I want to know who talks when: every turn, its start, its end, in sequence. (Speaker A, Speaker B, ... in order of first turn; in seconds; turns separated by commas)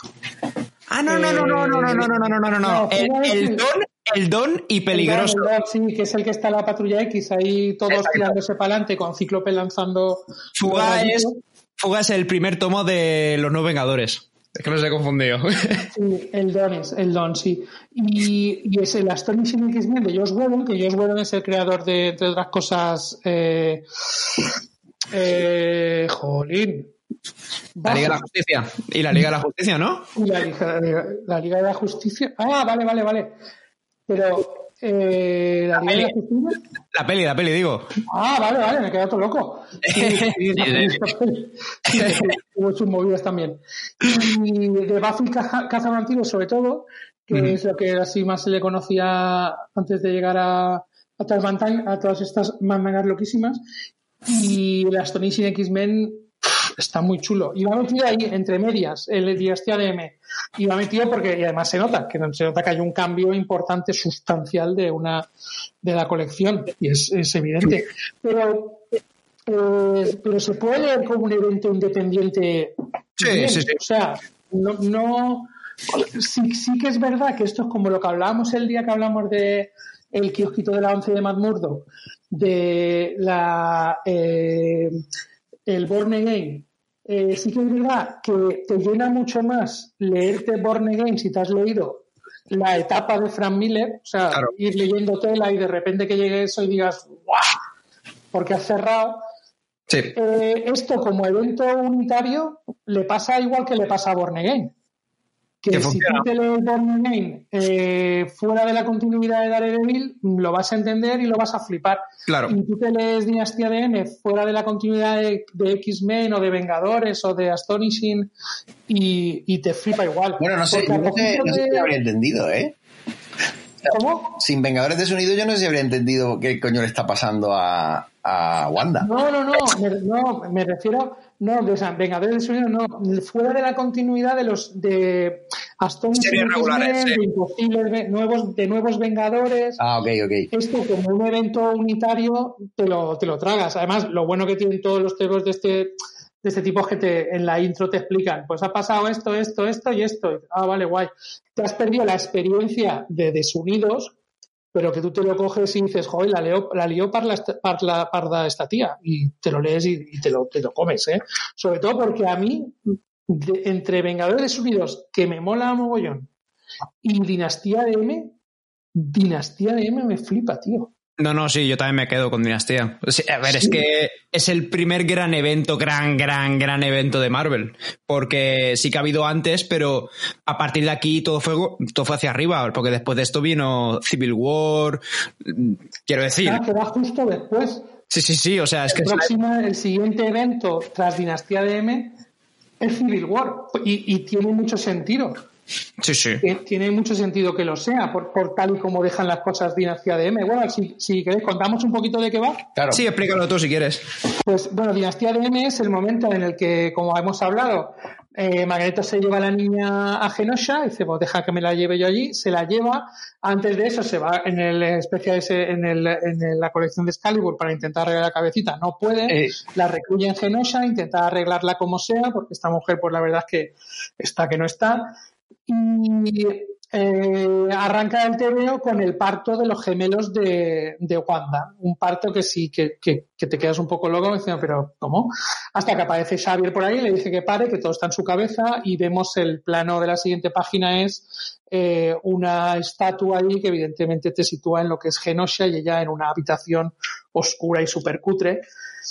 Speaker A: 0.9-5.5, Speaker B: 1.1-3.6, Speaker B: 4.9-11.4, Speaker A: 7.9-8.3, Speaker A: 10.6-15.9, Speaker B: 15.9-23.8, Speaker B: 25.1-26.9, Speaker B: 27.8-28.2, Speaker A: 27.8-30.1, Speaker B: 30.1-33.3, Speaker B: 34.1-36.6, Speaker A: 36.9-37.9, Speaker B: 38.1-53.6, Speaker A: 39.9-41.0, Speaker A: 41.9-42.3, Speaker B: 54.2-65.3, Speaker B: 65.8-68.8, Speaker B: 69.5-85.0, Speaker A: 73.2-73.8, Speaker B: 85.7-97.5, Speaker B: 98.3-99.2, Speaker A: 99.9-100.1, Speaker B: 100.1-104.7, Speaker B: 105.6-118.3, Speaker A: 105.7-106.2, Speaker A: 112.3-112.5, Speaker B: 118.9-121.9, Speaker C: 120.4-122.8, Speaker B: 123.9-124.4, Speaker C: 124.4-129.1, Speaker B: 129.0-139.8, Speaker A: 136.2-137.2, Speaker C: 139.8-140.5, Speaker B: 140.5-154.1, Speaker B: 154.7-166.3, Speaker B: 167.0-168.3, Speaker B: 168.9-170.9, Speaker A: 171.2-186.6, Speaker B: 173.4-173.8, Speaker B: 186.4-187.9, Speaker A: 188.1-189.3, Speaker B: 188.9-192.1, Speaker B: 192.8-195.5, Speaker A: 196.0-196.4, Speaker B: 196.4-202.6, Speaker C: 202.7-203.0, Speaker A: 202.9-204.0, Speaker B: 204.4-225.1, Speaker C: 219.3-219.5, Speaker B: 225.7-248.7